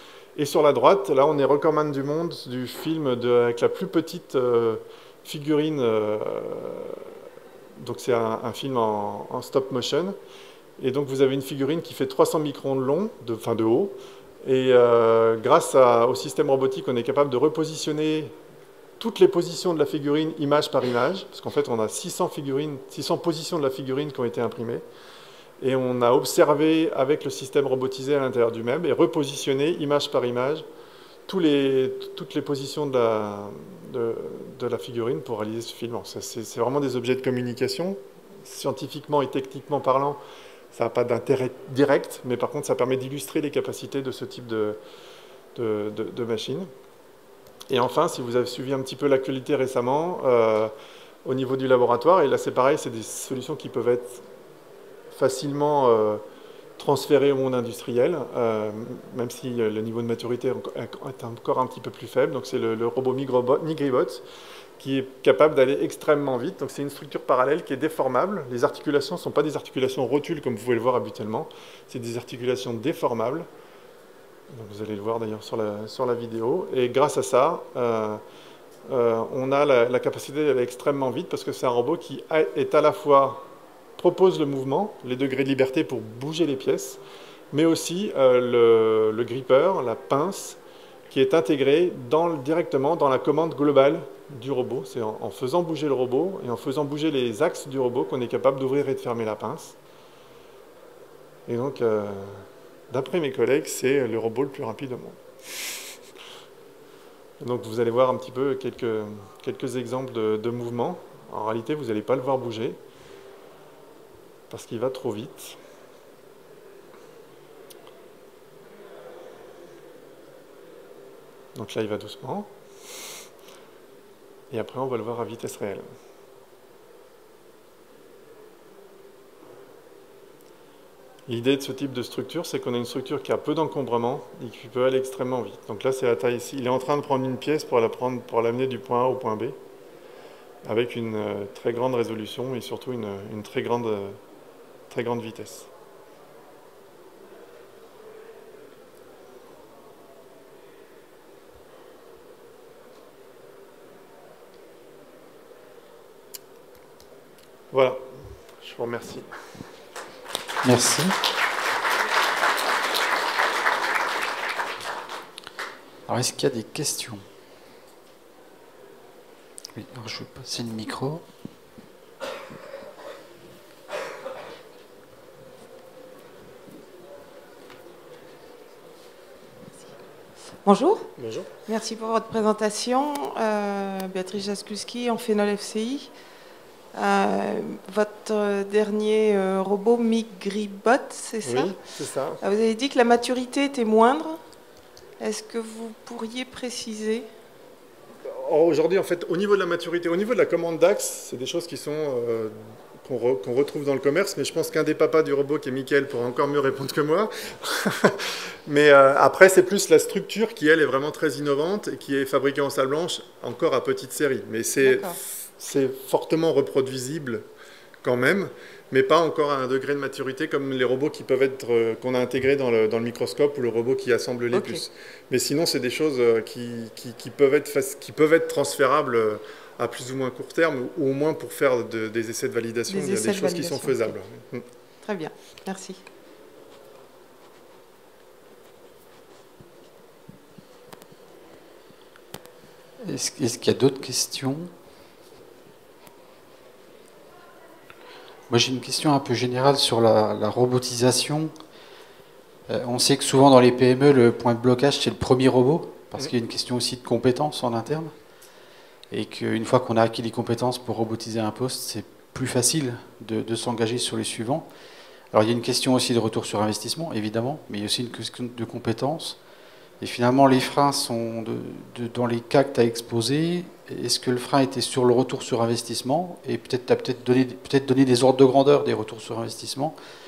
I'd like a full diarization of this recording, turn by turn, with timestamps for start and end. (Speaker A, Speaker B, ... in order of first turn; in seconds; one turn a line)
Speaker A: 0.3-7.1
Speaker A: 7.8-10.1
Speaker A: 10.8-18.3
Speaker A: 19.0-24.8
Speaker A: 25.6-30.6
Speaker A: 31.3-40.2
Speaker A: 40.7-44.8
Speaker A: 45.5-46.7
Speaker A: 47.7-50.7
Speaker A: 51.2-54.2
Speaker A: 55.1-56.2
Speaker A: 56.8-64.2
Speaker A: 64.8-73.5
Speaker A: 74.5-78.2
Speaker A: 78.9-83.4
Speaker A: 84.0-87.0
Speaker A: 87.5-90.6
Speaker A: 91.1-99.8
Speaker A: 101.5-105.2
Speaker A: 107.4-112.8
Speaker A: 114.5-115.6
Speaker A: 121.5-122.5
Speaker A: 124.5-125.9
Speaker A: 131.3-139.6
Speaker A: 140.6-144.2
Speaker A: 144.9-145.7
Speaker A: 157.7-158.1
Speaker A: 158.6-159.3
Speaker B: 160.6-161.1
Speaker B: 166.1-167.2
Speaker B: 169.7-171.2
Speaker C: 180.6-181.1
Speaker A: 181.2-181.5
Speaker C: 181.7-186.1
Speaker C: 186.9-191.8
Speaker A: 191.4-192.4
Speaker C: 192.4-194.4
Speaker C: 195.2-197.3
Speaker A: 198.2-217.4
Speaker C: 214.8-215.2
Speaker A: 218.0-234.6
Speaker C: 224.5-224.8
Speaker C: 232.9-234.1
Speaker C: 235.0-236.0
Speaker B: 243.0-244.7
Speaker B: 248.5-251.5
Speaker B: 252.7-258.1
Speaker B: 259.1-264.6
Speaker B: 265.3-269.4
Speaker B: 270.0-279.9